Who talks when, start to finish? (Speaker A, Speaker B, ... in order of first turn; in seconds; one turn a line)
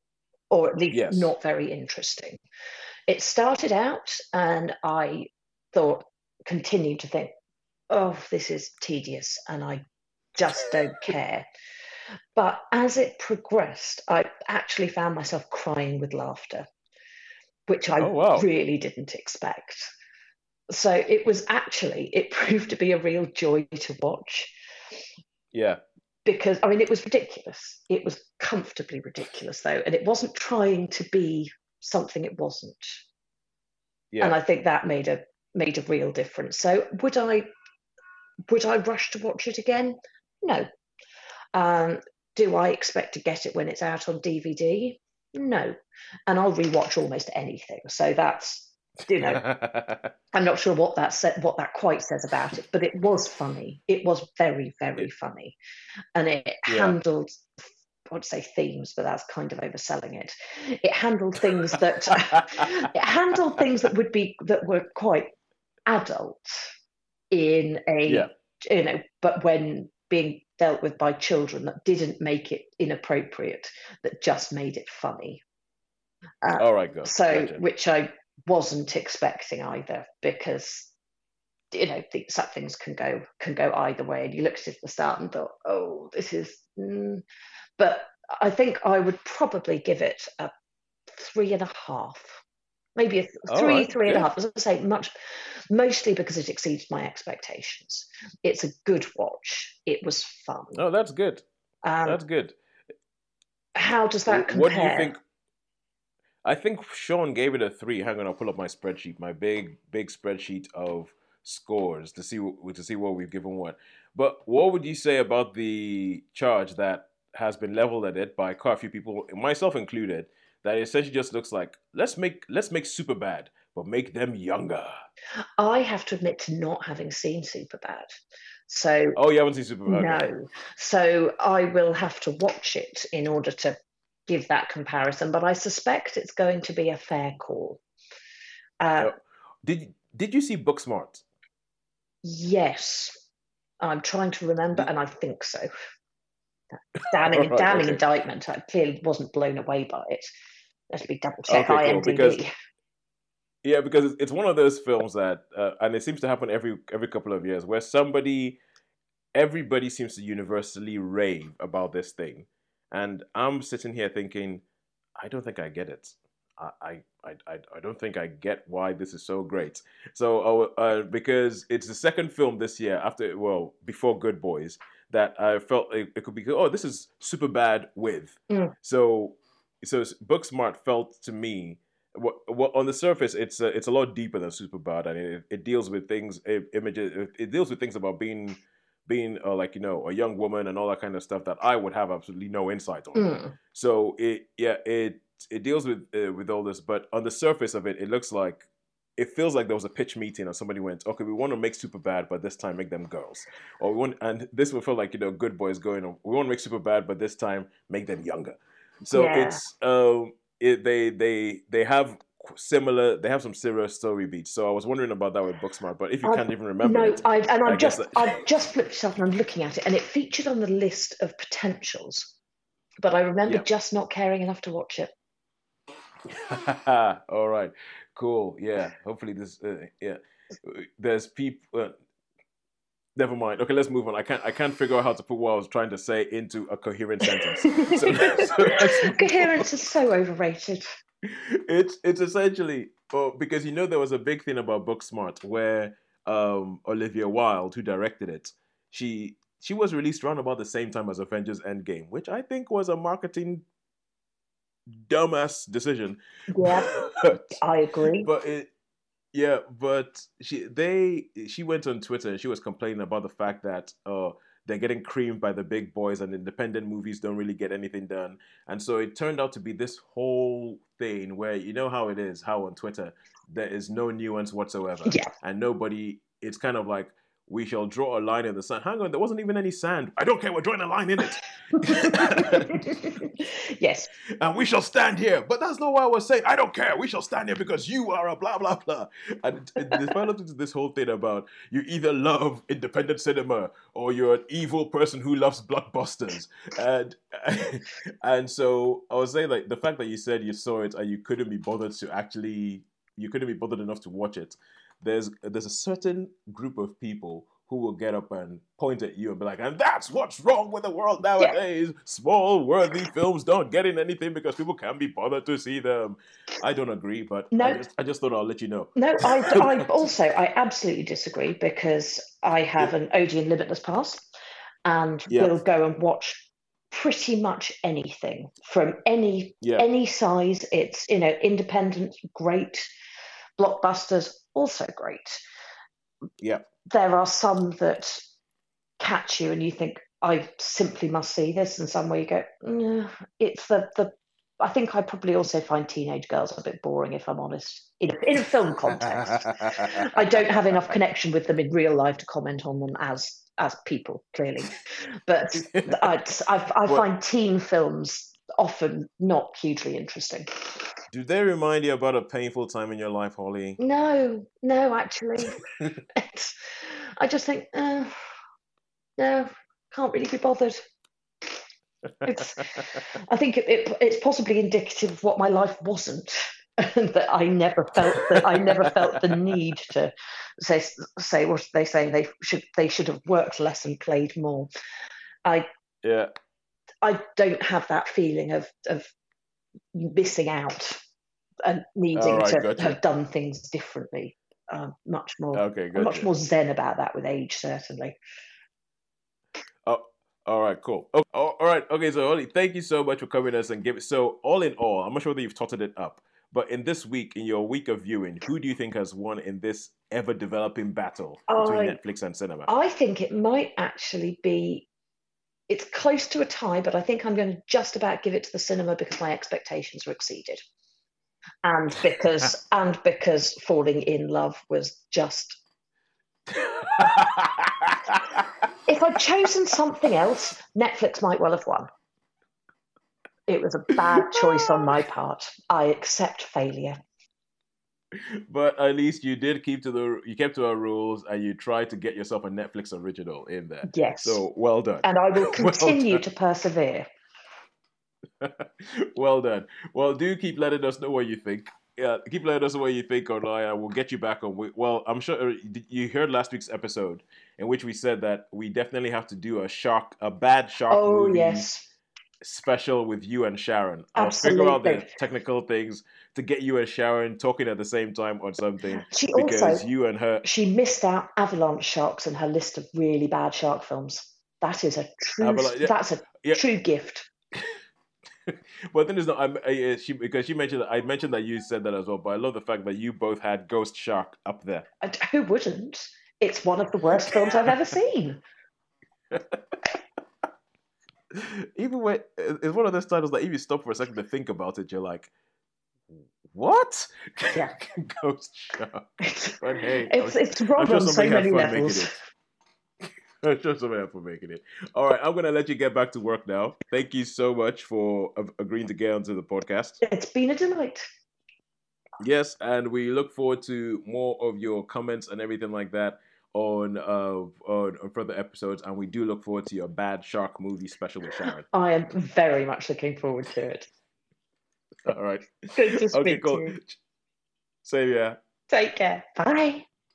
Speaker A: 0.5-2.4
Speaker B: 0.9-1.3
Speaker A: 3.1-7.3
Speaker A: 7.9-9.8
Speaker A: 10.3-11.5
Speaker A: 12.3-16.7
Speaker A: 17.7-19.9
Speaker B: 18.0-18.5
Speaker A: 20.7-24.6
Speaker B: 25.5-25.8
Speaker A: 26.2-33.0
Speaker B: 34.1-34.4
Speaker A: 34.2-37.5
Speaker A: 38.5-40.7
Speaker A: 41.5-45.8
Speaker A: 46.3-49.5
Speaker B: 49.2-50.1
Speaker A: 50.3-55.6
Speaker A: 56.1-57.4
Speaker B: 56.7-57.0
Speaker A: 58.1-65.3
Speaker B: 62.3-62.7
Speaker A: 65.9-66.7
Speaker A: 67.3-75.4
Speaker A: 76.4-80.9
Speaker B: 76.6-77.6
Speaker A: 81.7-87.2
Speaker A: 87.8-90.5
Speaker A: 91.1-92.4
Speaker A: 93.0-100.8
Speaker B: 93.5-94.3
Speaker B: 100.7-101.4
Speaker A: 101.8-102.2
Speaker B: 102.0-102.6
Speaker A: 103.8-105.1
Speaker B: 104.3-105.2
Speaker B: 106.4-125.0
Speaker A: 125.6-128.2
Speaker A: 128.7-129.2
Speaker B: 129.2-130.2
Speaker A: 129.9-133.8
Speaker A: 134.3-137.8
Speaker A: 138.8-139.1
Speaker B: 139.0-141.2
Speaker A: 142.2-143.2
Speaker A: 143.8-145.7
Speaker B: 147.0-148.0
Speaker A: 147.1-150.3
Speaker A: 150.9-152.5
Speaker B: 151.5-152.4
Speaker B: 153.6-158.6
Speaker B: 159.3-164.6
Speaker B: 165.2-198.7
Speaker A: 193.2-193.6
Speaker B: 199.2-218.4
Speaker A: 209.1-209.6
Speaker A: 216.2-222.3
Speaker A: 223.0-225.1
Speaker B: 226.3-231.9
Speaker B: 233.2-239.7
Speaker A: 237.2-240.8
Speaker B: 241.2-253.7
Speaker B: 254.9-257.6
Speaker A: 256.5-256.9
Speaker A: 257.5-258.3
Speaker B: 258.2-258.7
Speaker B: 259.3-282.9
Speaker A: 281.8-284.1
Speaker B: 284.4-320.0
Speaker A: 289.9-290.1
Speaker A: 317.5-317.8
Speaker A: 319.0-324.3
Speaker A: 324.9-332.9
Speaker B: 325.3-325.6
Speaker A: 333.6-335.4
Speaker A: 336.9-338.2
Speaker A: 339.0-360.8
Speaker B: 348.9-350.1
Speaker B: 355.6-356.1
Speaker B: 361.1-363.8
Speaker A: 363.8-365.6
Speaker A: 366.1-368.1
Speaker A: 369.2-370.8
Speaker A: 372.2-384.7
Speaker B: 378.1-379.5
Speaker B: 386.0-386.3
Speaker A: 387.0-389.1
Speaker A: 389.9-391.0
Speaker A: 391.6-398.2
Speaker B: 392.1-393.0
Speaker B: 395.5-396.3
Speaker B: 399.9-412.7
Speaker A: 411.5-412.0
Speaker A: 412.7-414.9
Speaker A: 415.7-420.6
Speaker A: 421.6-425.6
Speaker B: 426.5-428.6
Speaker A: 428.9-431.9
Speaker A: 433.5-437.0
Speaker B: 434.2-435.0
Speaker B: 438.1-446.2
Speaker A: 443.9-444.4
Speaker A: 445.0-447.1
Speaker B: 448.4-461.7
Speaker A: 460.9-461.9
Speaker B: 462.4-470.4
Speaker A: 464.2-465.1
Speaker A: 469.1-469.9
Speaker A: 470.4-477.3
Speaker B: 475.4-476.6
Speaker B: 478.5-484.9
Speaker A: 485.0-488.4
Speaker B: 487.3-487.7
Speaker B: 489.3-489.6
Speaker B: 491.3-495.3
Speaker B: 496.5-499.1
Speaker A: 499.2-502.1
Speaker B: 499.6-502.1
Speaker B: 503.4-510.0
Speaker A: 510.0-511.1
Speaker B: 512.2-521.6
Speaker A: 521.7-523.9
Speaker B: 525.1-527.0
Speaker A: 525.8-526.8
Speaker B: 527.8-528.4
Speaker A: 528.7-529.9